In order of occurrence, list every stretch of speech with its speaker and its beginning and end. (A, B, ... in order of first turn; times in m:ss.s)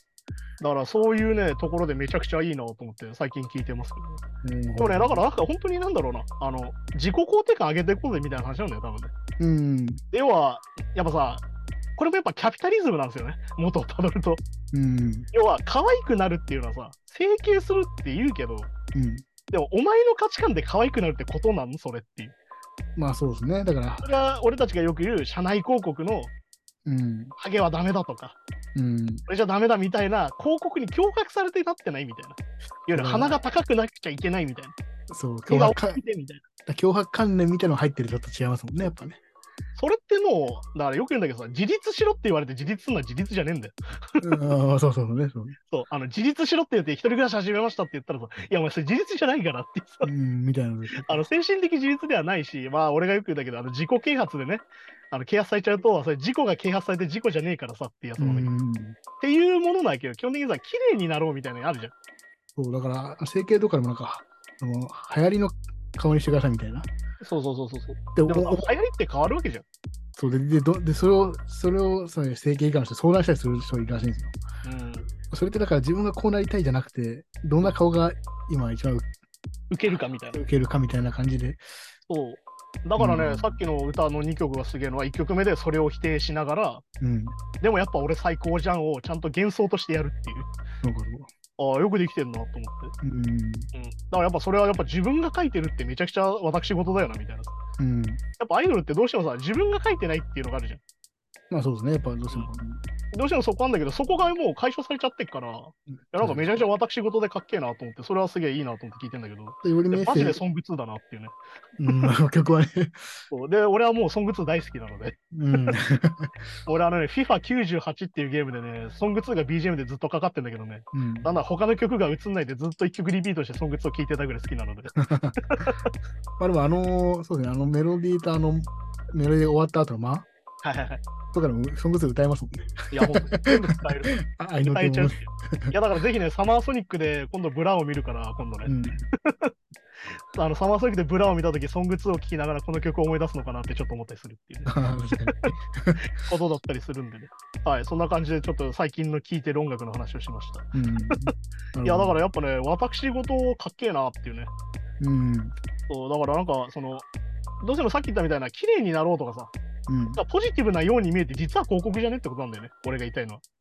0:00.6-0:04.2 A
0:04.4-0:05.2 B
0:04.8-0:09.1 A
0:09.4-0:10.0 B
0:10.1-0:11.4 A
0:12.0-0:14.4 A
0:14.7-0:15.3 B
0:15.3-0:18.7 A
0:18.9-0:19.2 B
0:19.5-0:22.4 A
0:23.0-0:24.1 B
0:24.0-0:26.3 A
0:26.8-0:27.4 B
0:27.4-0:28.4 A
0:28.8-0:29.2 B
0:29.3-0:34.8 A
0:32.9-0:33.4 B
0:35.1-0:36.0 B
0:35.5-0:36.4 A
0:36.7-0:39.2 B
0:39.8-0:44.4 A
0:44.2-0:45.6 B
0:45.7-0:50.1 A
0:50.0-0:51.2 B
0:51.0-0:58.5 A
0:58.2-0:59.0 B
0:59.2-1:01.9 A
1:02.6-1:06.9 B
1:07.2-1:09.6 A
1:08.2-1:08.7 B
1:10.2-1:14.4 B
1:14.6-1:15.1 A
1:15.3-1:19.1 B
1:19.7-1:20.4 A
1:20.3-1:21.6 B
1:22.1-1:26.8 A
1:23.0-1:23.6 B
1:27.0-1:27.4 B
1:27.6-1:30.5 A
1:30.8-1:31.3 B
1:31.6-1:32.9 A
1:33.0-1:33.7 B
1:33.7-1:37.5 A
1:37.8-1:38.2 B
1:38.4-1:40.8 A
1:41.5-1:42.8 B
1:43.1-1:51.4 A
1:46.0-1:46.5 B
1:49.6-1:50.4 B
1:51.8-1:53.2 B
1:53.3-1:55.8 A
1:55.3-1:56.3 B
1:56.6-2:05.0 A
2:00.9-2:01.3 B
2:05.0-2:05.4 B
2:05.5-2:05.9 A
2:06.4-2:10.3 B
2:10.6-2:11.0 A
2:11.3-2:13.6 B
2:12.9-2:19.5 A
2:14.2-2:15.8 B
2:18.7-2:19.1 B
2:20.3-2:24.8 A
2:24.7-2:26.0 B
2:26.2-2:31.3 A
2:30.7-2:32.2 B
2:31.8-2:34.5 A
2:35.0-2:35.6 B
2:35.9-2:37.1 A
2:37.6-2:39.5 A
2:39.9-2:40.2 B
2:40.1-2:43.4 A